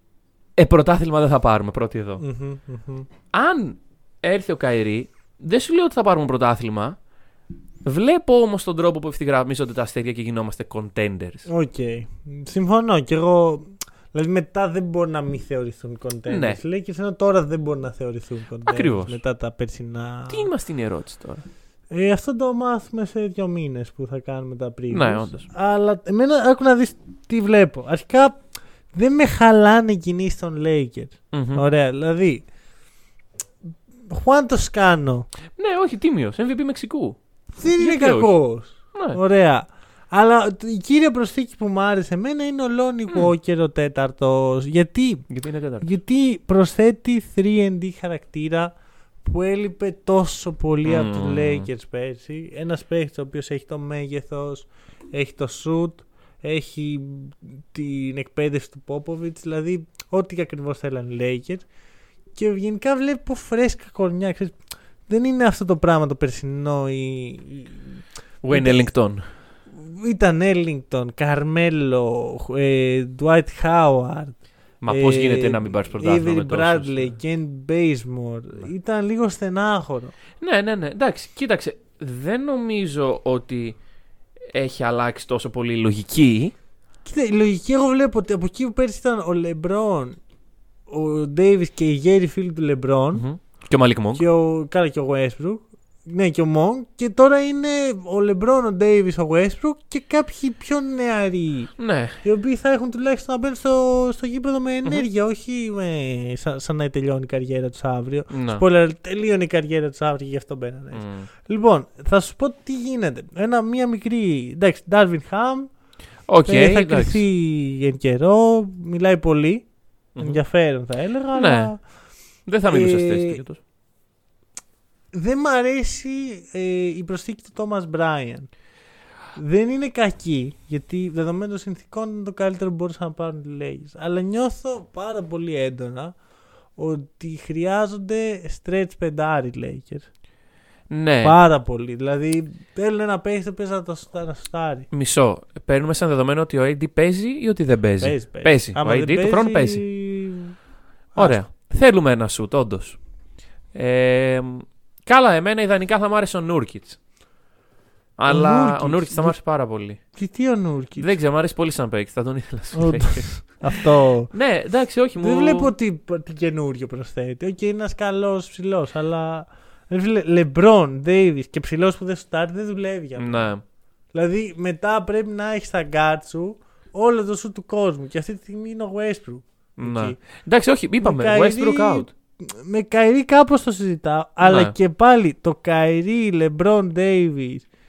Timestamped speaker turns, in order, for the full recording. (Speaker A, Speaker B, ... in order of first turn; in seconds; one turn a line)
Speaker A: 0.6-2.2
Speaker B: 2.2-3.1
Speaker A: 3.3-7.0
Speaker A: 7.8-11.5
Speaker B: 11.4-20.5
Speaker A: 16.3-16.6
Speaker A: 18.7-19.2
Speaker A: 20.3-21.5
Speaker B: 21.9-28.4
Speaker A: 24.9-25.4
Speaker B: 28.9-32.5
Speaker A: 31.3-31.6
Speaker B: 34.1-35.3
Speaker A: 35.6-37.2
Speaker B: 37.6-45.3
Speaker A: 37.8-38.3
Speaker A: 38.9-39.2
Speaker A: 45.3-45.9
Speaker B: 45.8-61.6
Speaker A: 50.8-51.7
Speaker B: 62.3-68.0
Speaker A: 68.4-69.3
Speaker B: 68.5-68.9
Speaker B: 69.7-74.4
Speaker A: 74.8-77.1
Speaker B: 74.9-80.2
Speaker A: 80.4-83.8
Speaker A: 84.5-86.5
Speaker B: 87.0-90.2
Speaker B: 90.9-93.2
Speaker A: 93.1-94.2
Speaker B: 94.1-101.7
Speaker A: 101.8-102.2
Speaker B: 102.2-115.7
Speaker A: 108.3-108.6
Speaker A: 110.9-111.3
Speaker A: 116.3-117.2
Speaker B: 116.4-119.7
Speaker A: 120.1-120.4
Speaker B: 120.2-121.8
Speaker A: 121.3-121.7
Speaker A: 122.5-123.6
Speaker B: 122.7-123.4
Speaker B: 125.1-128.5
Speaker B: 129.3-136.2
Speaker B: 136.8-140.1
Speaker A: 140.9-141.3
Speaker B: 141.2-144.9
Speaker A: 144.9-149.8
Speaker B: 148.0-150.5
Speaker B: 151.1-151.4
Speaker A: 151.1-153.0
Speaker A: 153.7-157.0
Speaker A: 158.2-160.0
Speaker B: 158.3-159.4
Speaker B: 160.1-161.2
Speaker A: 161.0-165.7
Speaker B: 162.8-164.3
Speaker B: 165.2-173.5
Speaker A: 173.2-173.6
Speaker B: 174.1-180.2
Speaker A: 179.8-182.1
Speaker B: 181.0-187.7
Speaker A: 184.4-184.7